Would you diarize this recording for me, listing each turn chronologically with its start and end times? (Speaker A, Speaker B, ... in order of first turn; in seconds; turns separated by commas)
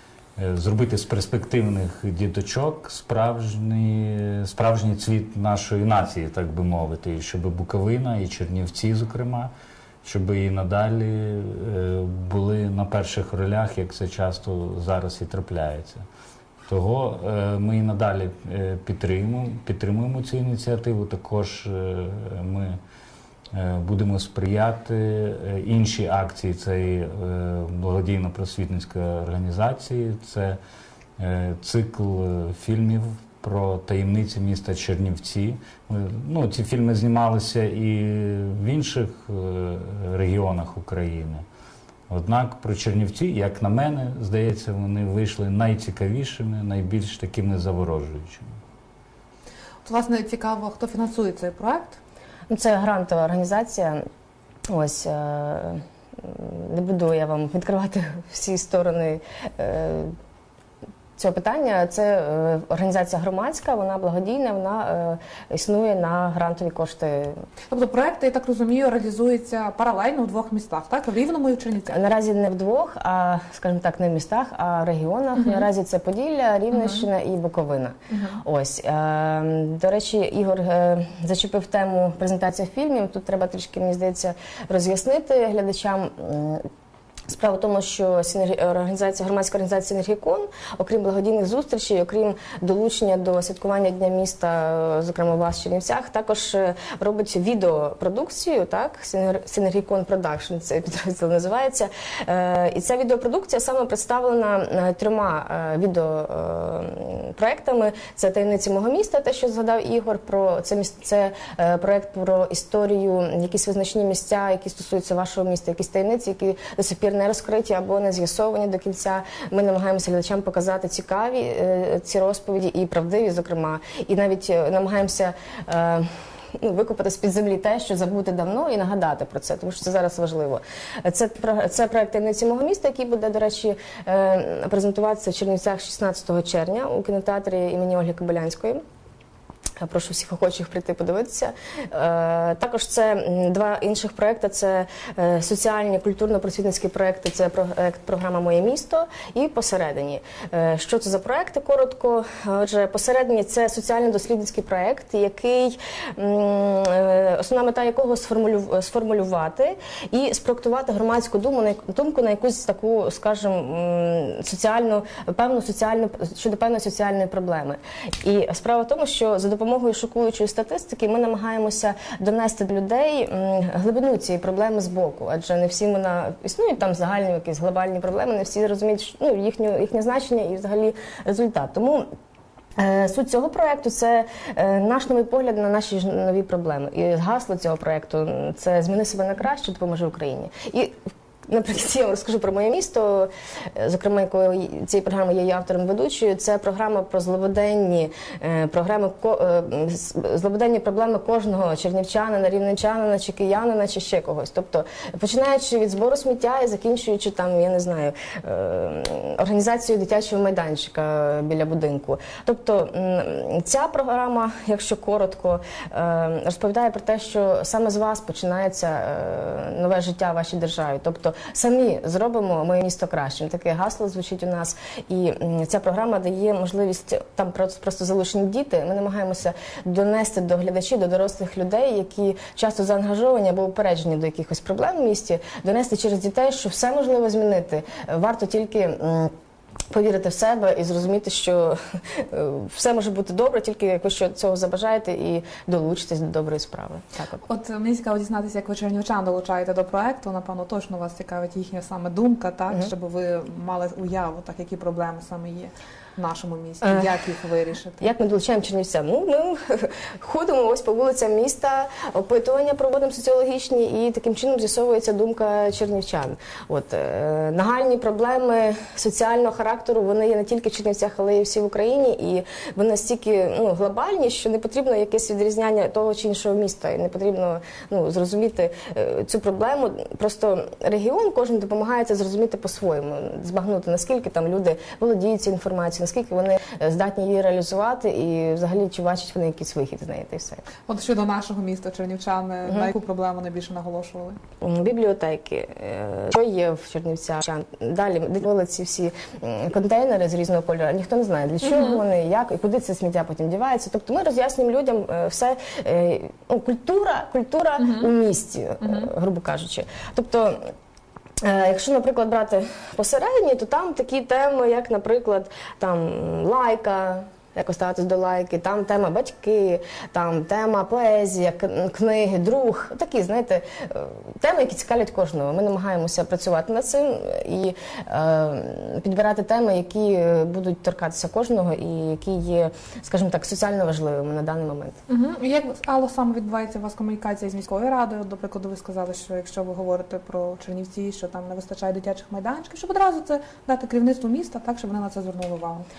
Speaker A: 0.4-9.5, Speaker A: 10.0-16.0, Speaker A: 16.7-22.8, Speaker A: 23.5-30.6, Speaker A: 31.2-41.4, Speaker A: 42.1-48.5, Speaker B: 49.8-52.0, Speaker C: 52.5-54.0, Speaker C: 54.7-60.1, Speaker C: 61.2-67.4, Speaker B: 67.7-72.1, Speaker C: 71.9-86.6, Speaker B: 75.4-75.6, Speaker B: 76.7-77.1, Speaker B: 78.1-78.4, Speaker C: 87.3-126.1, Speaker C: 126.6-138.8, Speaker C: 139.8-182.0, Speaker C: 182.8-190.9, Speaker C: 191.5-239.3, Speaker C: 239.9-247.4, Speaker B: 247.4-258.1, Speaker C: 256.8-257.2, Speaker C: 258.0-290.6, Speaker B: 290.8-294.4, Speaker C: 294.6-310.7, Speaker B: 301.6-302.0, Speaker B: 307.8-308.1, Speaker B: 308.8-309.1, Speaker C: 311.4-335.0, Speaker B: 335.1-345.9